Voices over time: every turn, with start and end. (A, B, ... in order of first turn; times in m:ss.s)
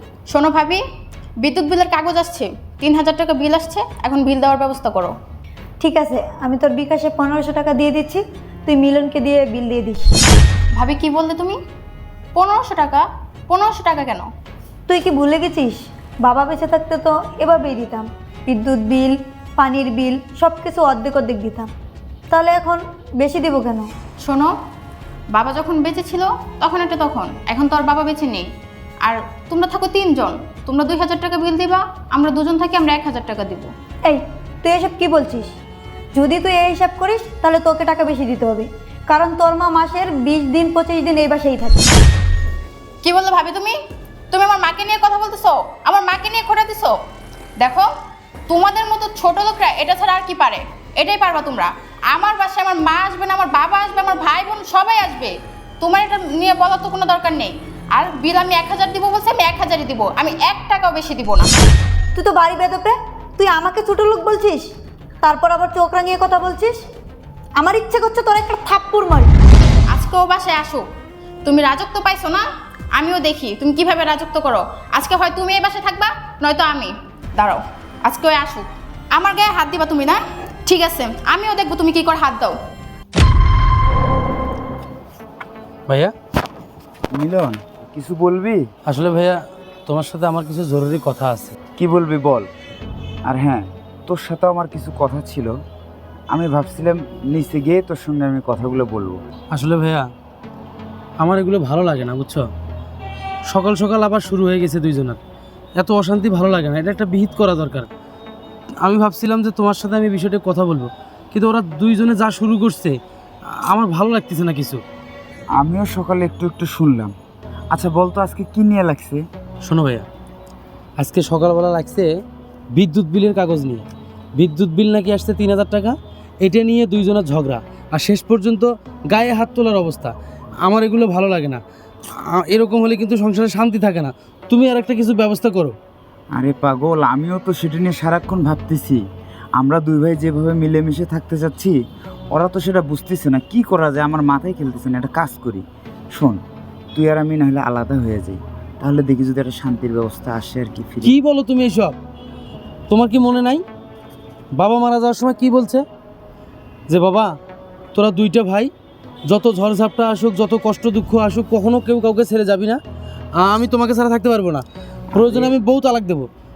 0:00.3-0:00.8 A
0:01.4-0:05.1 A
0:05.8-0:10.1 B
0:10.8-0:11.6 A
0:12.4-0:14.3 A
0:14.9-0:21.7 B
0:22.3-0:23.9 B
0:24.2-0:24.5 A
0:25.3-0:28.4 A
0:29.0-0:33.7 A
0:34.1-0:35.5 B
0:36.2-0:41.9 B
0:43.0-0:43.8 A
0:44.3-0:47.0 A
0:47.6-0:47.9 A
0:48.5-1:01.5 A
1:02.2-1:04.7 B
1:05.2-1:06.8 B
1:07.6-1:09.3 B
1:09.9-1:10.8 A
1:11.4-1:12.4 A
1:13.0-1:22.6 A
1:25.9-1:26.1 C
1:27.1-1:28.7 D
1:28.9-1:31.6 C
1:31.8-1:32.5 D
1:33.2-1:35.5 D
1:36.3-1:39.2 D
1:39.5-1:40.1 C
1:41.2-1:42.5 C
1:43.5-1:45.2 C
1:45.8-1:47.9 C
1:48.8-1:54.8 C
1:55.6-1:57.1 D
1:57.7-1:59.2 D
1:59.6-2:00.1 C
2:01.0-2:02.1 C
2:02.7-2:15.8 C
2:16.3-2:19.0 D
2:19.6-2:21.8 D
2:22.3-2:26.4 D
2:26.9-2:31.2 D
2:31.0-2:32.0 C
2:32.9-2:33.6 C
2:34.5-2:35.8 C
2:36.9-2:37.3 C
2:37.9-2:38.7 C
2:39.3-2:42.8 C
2:43.4-2:46.3 C
2:45.1-2:45.5 D